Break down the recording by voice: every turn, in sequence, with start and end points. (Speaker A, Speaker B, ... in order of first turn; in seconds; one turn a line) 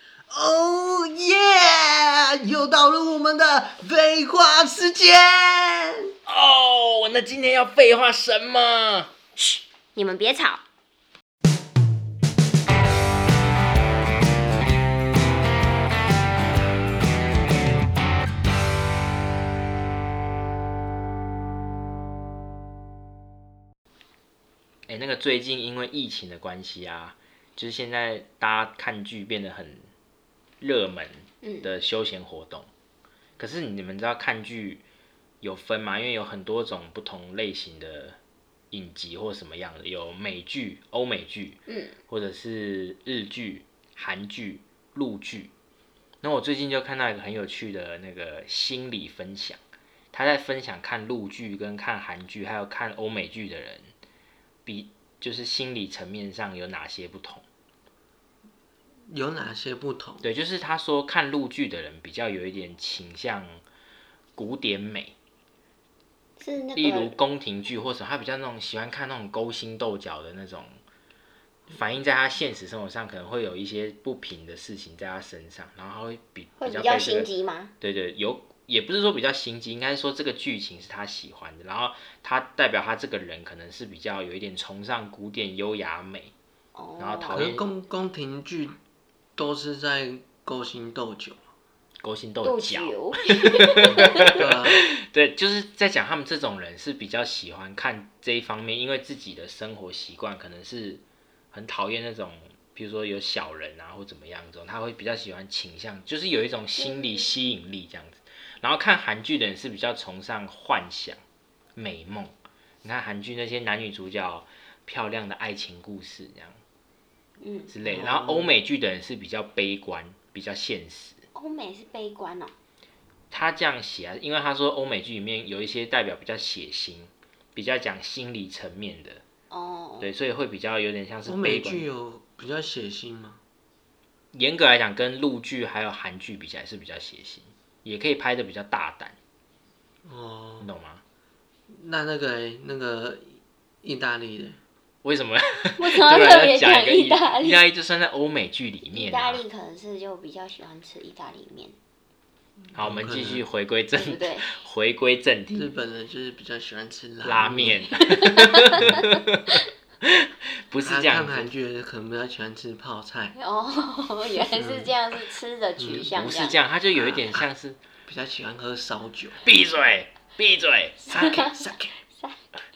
Speaker A: 0.3-6.1
Speaker B: 6.3-9.1
Speaker C: 9.4-10.6
Speaker B: 24.9-29.9
Speaker B: 30.6-32.7
Speaker C: 31.4-31.7
Speaker B: 33.4-34.8
Speaker B: 35.4-38.2
Speaker B: 38.7-45.5
Speaker C: 41.7-41.9
Speaker B: 46.2-49.6
Speaker B: 50.1-53.9
Speaker B: 54.6-57.4
Speaker A: 59.1-60.2
Speaker B: 60.2-63.6
Speaker B: 64.3-65.1
Speaker C: 66.4-67.1
Speaker B: 66.7-70.8
Speaker B: 71.7-77.3
Speaker C: 76.6-77.7
Speaker B: 77.8-86.3
Speaker C: 86.7-87.4
Speaker B: 87.0-87.7
Speaker A: 87.3-88.8
Speaker A: 89.3-91.4
Speaker B: 92.0-101.0
Speaker C: 92.4-94.3
Speaker A: 94.3-94.8
Speaker B: 101.5-111.2
Speaker C: 106.8-107.3
Speaker B: 111.8-116.5
Speaker C: 117.4-117.7
Speaker B: 117.7-121.2
Speaker A: 117.8-118.5
Speaker C: 121.3-122.5
Speaker B: 123.3-129.2
Speaker C: 129.5-130.1
Speaker B: 130.0-131.9
Speaker A: 131.2-133.4
Speaker B: 134.3-139.2
Speaker A: 140.0-140.7
Speaker B: 140.6-141.0
Speaker A: 141.7-144.6
Speaker B: 145.0-149.4
Speaker C: 145.8-147.6
Speaker C: 148.9-151.7
Speaker A: 152.7-153.4
Speaker B: 152.7-155.7
Speaker C: 154.0-154.5
Speaker A: 155.5-157.9
Speaker B: 157.2-159.3
Speaker C: 158.0-158.8
Speaker B: 160.7-161.5
Speaker A: 160.8-163.3
Speaker C: 163.4-166.6
Speaker A: 164.5-164.9
Speaker A: 165.8-166.1
Speaker B: 166.1-167.8
Speaker A: 167.0-167.4
Speaker A: 168.1-169.4
Speaker B: 169.4-171.1
Speaker C: 171.1-171.6
Speaker A: 171.1-171.9
Speaker C: 172.1-172.4